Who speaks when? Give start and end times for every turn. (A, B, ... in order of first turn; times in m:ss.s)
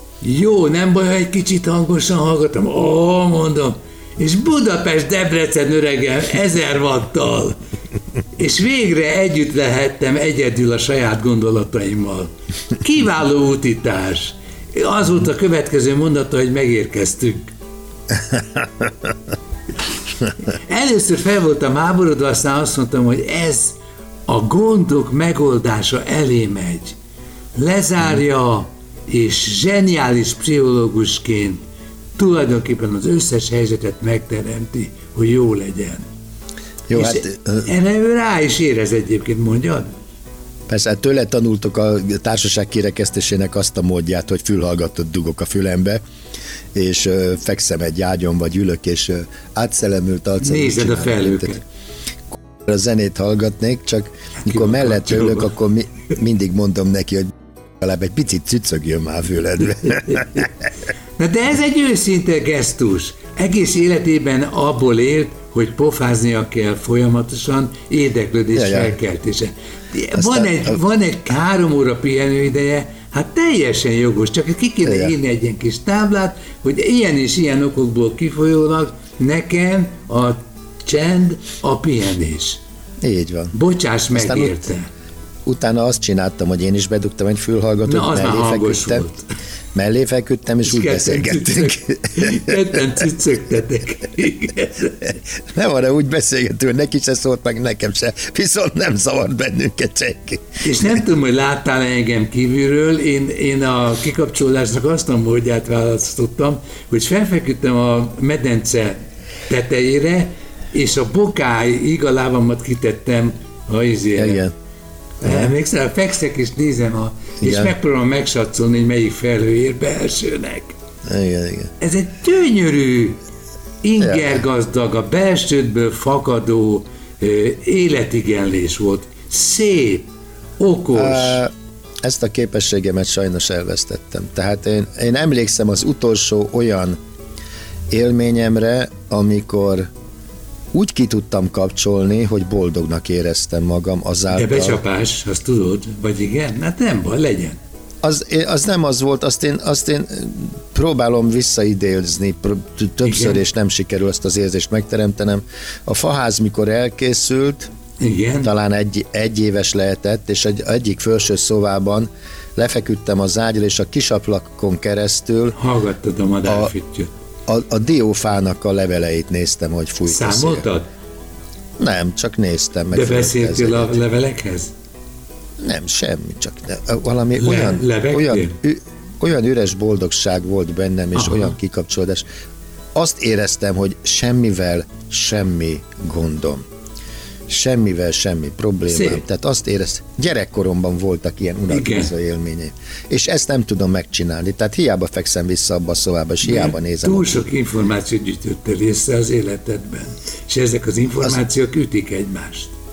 0:00.2-0:07.6 A
0:08.3-0:17.5 A
0:18.3-0:18.9 B
0:20.5-0:27.0 A
0:27.5-0:31.6 A
0:32.1-0:36.1 A
0:36.9-0:37.7 B
0:36.9-0:39.9 A
0:40.7-0:46.0 B
0:46.7-0:51.6 B
0:50.4-0:51.6 A
0:52.3-1:00.5 B
0:54.4-0:55.5 A
1:01.2-1:22.6 A
1:08.5-1:08.9 B
1:10.1-1:10.8 B
1:14.8-1:15.1 B
1:23.0-1:23.5 B
1:23.5-1:24.9 A
1:24.1-1:24.6 B
1:25.4-1:29.1 B
1:27.8-1:29.3 A
1:29.7-1:32.8 B
1:30.6-1:35.1 A
1:35.0-1:40.6 B
1:40.6-1:54.4 A
1:54.1-1:54.5 B
1:55.2-2:00.8 A
1:55.2-1:55.5 B
1:57.4-1:57.7 B
2:01.0-2:01.7 B
2:01.8-2:03.2 A
2:03.8-2:11.4 A
2:04.0-2:04.4 B
2:10.9-2:11.5 B
2:12.0-2:17.0 B
2:17.9-2:19.9 B
2:20.7-2:24.8 B
2:24.3-2:27.6 A
2:28.0-2:37.7 B
2:33.0-2:33.4 A
2:38.0-2:38.5 A
2:38.4-2:45.6 B
2:45.6-2:47.1 A
2:46.4-2:46.7 B
2:47.5-2:50.7 B
2:50.1-2:50.9 A
2:51.8-2:54.0 B
2:52.9-2:54.7 A
2:55.6-3:02.2 B
2:57.4-2:58.6 A
3:01.2-3:01.5 A
3:02.9-3:06.6 B
3:07.5-3:17.4 B
3:08.9-3:09.2 A
3:11.7-3:12.1 A
3:16.4-3:22.7 A